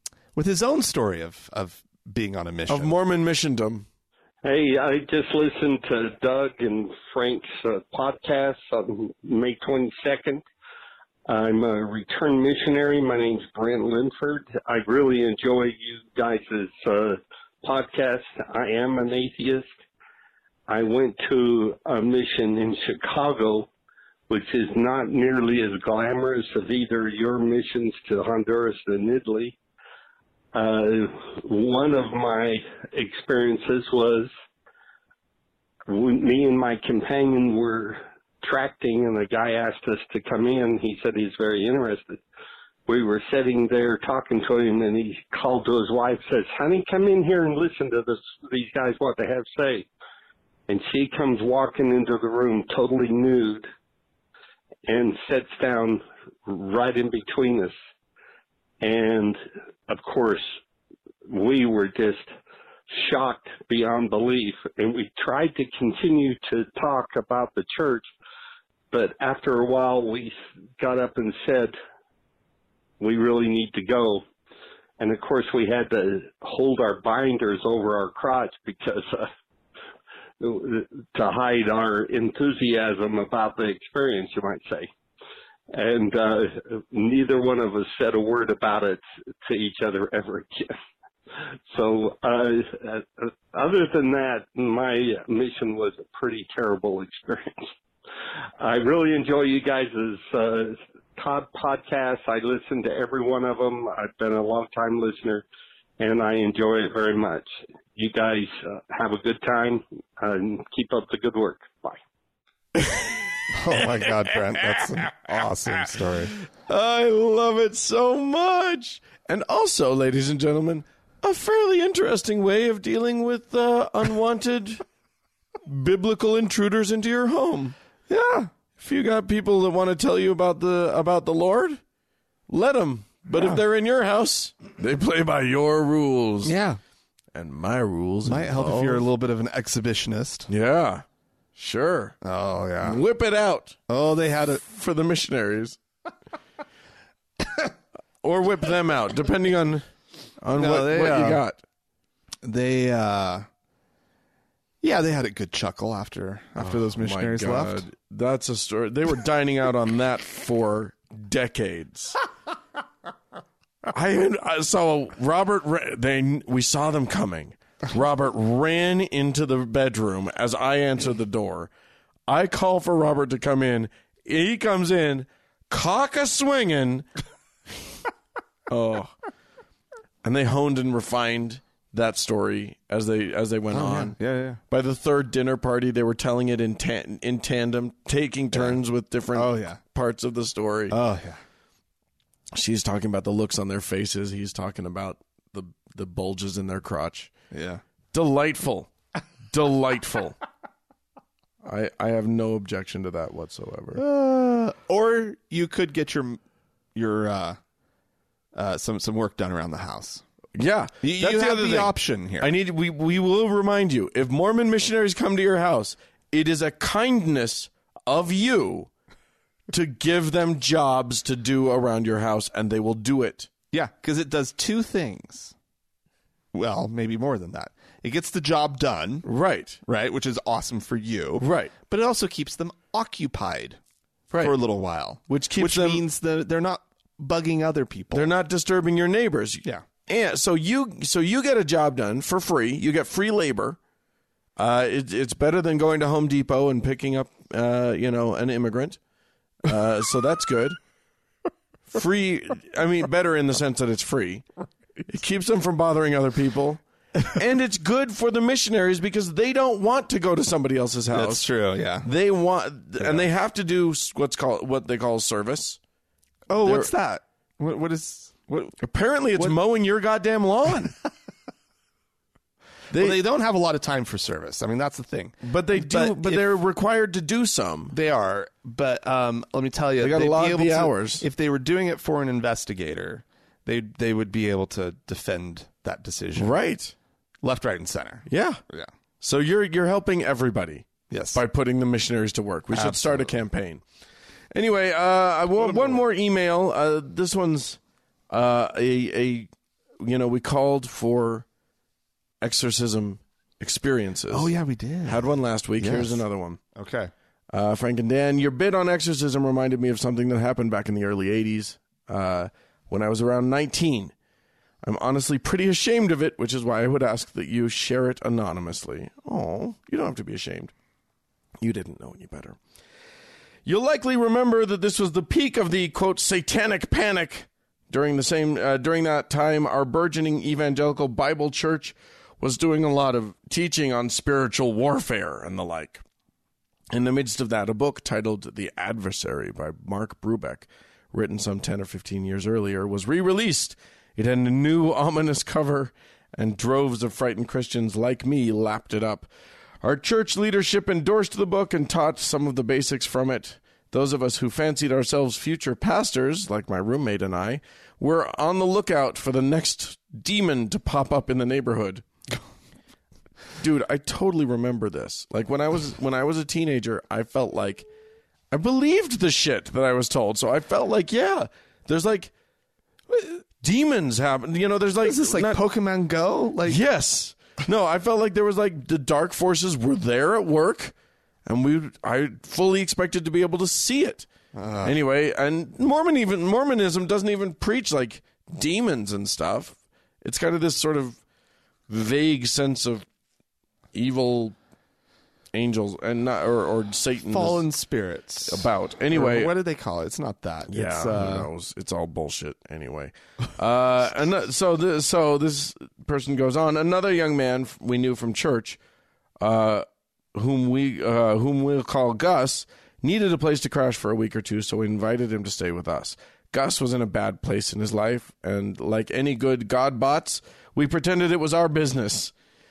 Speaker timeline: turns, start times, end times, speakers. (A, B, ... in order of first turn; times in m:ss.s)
0:00.3-0:02.9 A
0:02.7-0:03.9 B
0:04.4-0:10.4 C
0:11.3-0:19.7 C
0:20.7-0:23.7 C
0:24.3-0:29.6 C
0:30.5-0:34.3 C
0:35.9-0:42.2 C
0:42.9-0:49.9 C
0:50.7-0:53.7 C
0:54.9-0:57.7 C
0:58.8-1:00.4 C
1:01.3-1:02.3 C
1:02.9-1:08.1 C
1:08.9-1:11.7 C
1:13.0-1:14.2 C
1:15.0-1:19.3 C
1:20.4-1:24.9 C
1:25.7-1:30.7 C
1:31.7-1:37.7 C
1:38.6-1:45.4 C
1:46.0-1:52.0 C
1:52.7-1:54.7 B
1:53.5-1:56.4 A
1:56.6-2:04.8 B
2:05.6-2:07.7 B
2:08.1-2:08.5 A
2:08.8-2:11.8 B
2:12.5-2:16.5 B
2:16.4-2:16.8 A
2:17.3-2:19.0 B
2:18.2-2:20.5 A
2:20.5-2:21.0 B
2:21.6-2:22.2 B
2:22.2-2:23.0 A
2:22.8-2:23.8 B
2:23.9-2:24.6 A
2:24.6-2:25.8 B
2:28.2-2:29.8 B
2:30.4-2:31.6 B
2:30.6-2:31.4 A
2:32.4-2:33.5 A
2:34.8-2:37.9 A
2:36.6-2:42.2 B
2:43.9-2:51.7 B
2:52.3-2:57.1 B
2:58.7-2:59.1 B
3:00.2-3:04.2 B
3:03.7-3:04.6 A
3:04.7-3:10.9 B
3:09.3-3:09.8 A
3:10.9-3:11.4 A
3:12.5-3:17.3 B
3:17.5-3:17.8 A
3:18.1-3:18.9 B
3:19.5-3:20.4 B
3:21.6-3:24.0 B
3:23.9-3:26.4 A
3:26.9-3:27.6 A
3:28.6-3:30.2 A
3:30.6-3:38.9 B
3:31.0-3:32.5 A
3:39.7-3:43.5 B
3:43.7-3:45.6 A
3:46.5-3:49.2 A
3:49.2-3:49.8 B
3:49.8-3:53.8 A
3:51.4-3:51.7 B
3:54.4-3:58.3 A
3:55.3-3:56.0 B
3:58.1-4:03.8 B
4:04.6-4:09.0 B
4:09.6-4:10.8 B
4:11.9-4:14.4 B
4:15.1-4:21.5 B
4:21.1-4:22.1 A
4:22.0-4:25.8 B
4:23.0-4:23.2 A
4:26.5-4:28.8 A
4:26.6-4:26.9 B
4:28.8-4:30.9 B
4:32.9-4:33.2 B
4:32.9-4:36.5 A
4:35.4-4:37.9 B
4:37.9-4:46.6 A
4:40.0-4:41.2 B
4:46.4-4:46.9 B
4:47.4-4:48.9 A
4:48.3-4:48.6 B
4:49.2-4:53.8 B
4:51.1-4:51.4 A
4:52.7-4:53.3 A
4:54.5-4:57.8 B
4:55.6-4:56.0 A
4:58.3-5:01.4 B
5:02.4-5:04.5 B
5:04.3-5:05.2 A
5:05.0-5:06.6 B
5:05.8-5:06.2 A
5:06.7-5:07.1 A
5:07.5-5:14.1 B
5:14.8-5:20.7 B
5:21.6-5:22.6 B
5:23.6-5:36.0 B
5:36.9-5:49.3 B
5:49.8-6:02.0 B
6:03.6-6:07.9 B
6:08.5-6:12.3 B
6:13.6-6:15.6 B
6:15.0-6:16.8 A
6:16.6-6:20.9 B
6:21.4-6:24.3 B
6:24.5-6:25.0 A
6:24.8-6:31.2 B
6:31.9-6:33.0 B
6:33.9-6:34.6 B
6:35.5-6:37.6 B
6:37.3-6:41.5 A
6:38.5-6:39.5 B
6:40.7-6:48.8 B
6:49.4-7:02.3 B